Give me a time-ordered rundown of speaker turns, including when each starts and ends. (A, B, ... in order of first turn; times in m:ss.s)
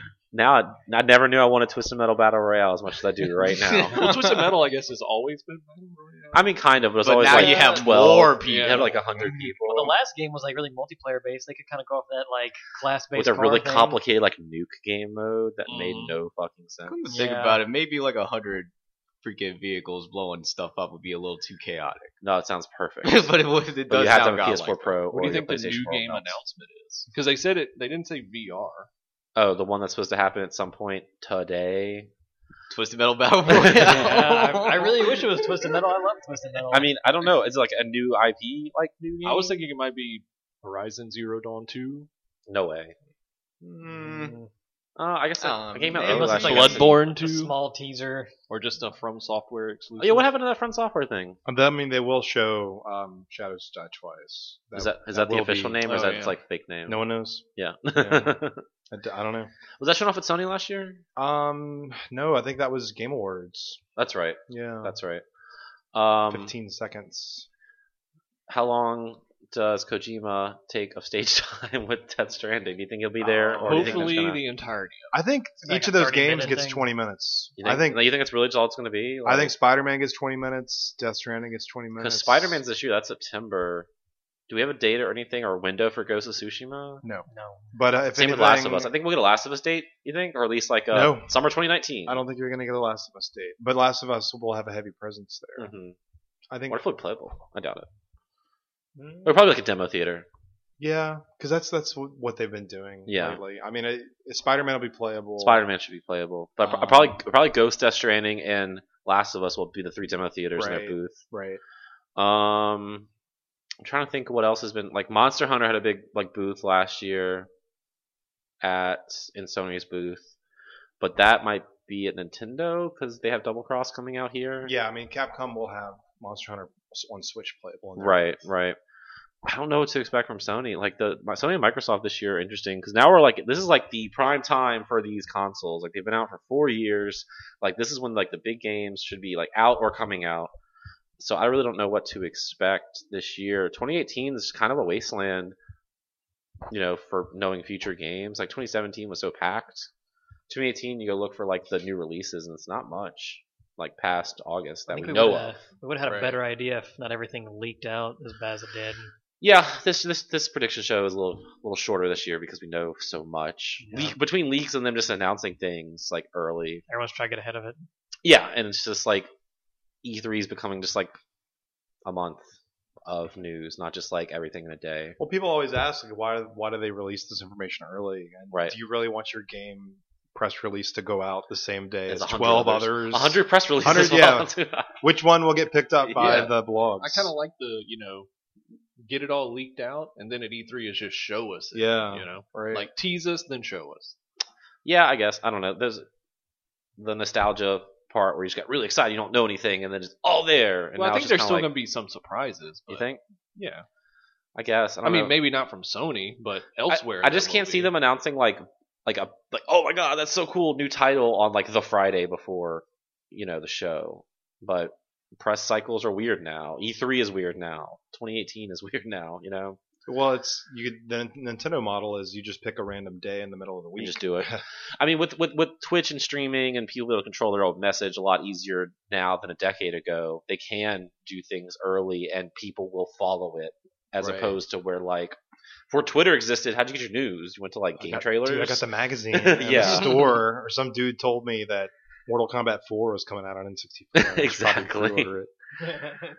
0:00.3-0:04.0 A
0:03.4-0:04.5 B
0:03.9-0:06.5 C
0:06.3-0:09.9 A
0:07.0-0:09.0 B
0:07.3-0:07.9 D
0:08.4-0:08.9 C
0:09.2-0:14.0 D
0:13.1-0:17.0 A
0:15.7-0:16.2 C
0:16.9-0:18.7 B
0:17.1-0:17.6 D
0:19.2-0:22.1 B
0:22.2-0:23.3 A
0:23.0-0:25.0 B
0:23.9-0:26.4 A
0:25.1-0:28.9 C
0:29.4-0:32.1 A
0:32.7-0:35.8 B
0:33.5-0:34.1 A
0:33.7-0:36.9 D
0:36.7-0:39.6 A
0:39.2-0:42.1 C
0:42.5-0:42.9 A
0:43.6-0:44.4 B
0:45.0-0:47.0 A
0:45.4-0:46.8 B
0:46.0-0:48.3 D
0:46.4-0:47.5 C
0:48.5-0:50.3 C
0:50.0-0:51.4 A
0:51.5-0:56.3 E
0:54.8-0:57.0 A
0:55.8-0:56.4 B
0:56.9-0:58.4 E
0:57.6-0:58.6 A
0:58.9-0:59.5 E
0:59.8-1:01.0 A
1:01.2-1:03.8 E
1:04.0-1:05.2 A
1:04.5-1:05.0 E
1:05.9-1:06.5 A
1:06.3-1:07.5 E
1:08.5-1:14.4 A
1:13.2-1:14.1 E
1:13.5-1:15.1 C
1:15.1-1:18.0 E
1:15.6-1:16.9 D
1:17.6-1:19.5 A
1:19.2-1:22.6 E
1:22.0-1:23.9 A
1:24.5-1:27.0 A
1:27.0-1:28.9 E
1:27.3-1:27.7 D
1:28.2-1:32.2 A
1:30.9-1:31.4 E
1:32.1-1:35.7 E
1:35.6-1:36.0 A
1:36.5-1:36.8 E
1:36.7-1:37.9 A
1:39.0-1:39.2 E
1:39.2-1:40.3 A
1:40.8-1:45.6 E
1:43.1-1:43.4 A
1:45.4-1:51.2 A
1:46.6-1:47.2 E
1:50.6-1:51.6 E
1:52.2-1:53.1 A
1:53.8-1:57.5 A
1:58.6-2:00.3 A
2:01.0-2:04.7 A
2:04.6-2:08.4 E
2:08.0-2:08.8 A
2:09.4-2:20.5 A
2:21.2-2:25.6 A
2:26.7-2:29.9 A
2:30.5-2:35.6 A
2:34.9-2:39.1 D
2:39.4-2:46.8 A
2:43.8-2:44.2 D
2:46.9-2:47.8 D
2:48.2-2:49.3 A
2:50.0-2:51.1 A
2:52.0-2:52.6 A
2:53.1-2:55.2 A
2:55.2-3:07.3 E
3:02.1-3:05.0 A
3:06.1-3:06.5 A
3:06.1-3:08.3 C
3:09.0-3:14.2 C
3:11.7-3:12.9 E
3:14.8-3:16.1 A
3:17.0-3:21.7 A
3:21.0-3:23.9 C
3:22.9-3:23.2 A
3:24.6-3:25.4 A
3:25.0-3:27.9 C
3:26.9-3:39.8 A
3:40.1-3:44.6 E
3:44.0-3:55.4 A
3:54.2-3:54.6 B
3:55.9-4:00.2 A
3:58.0-4:05.5 E
4:04.2-4:05.3 A
4:05.9-4:06.2 D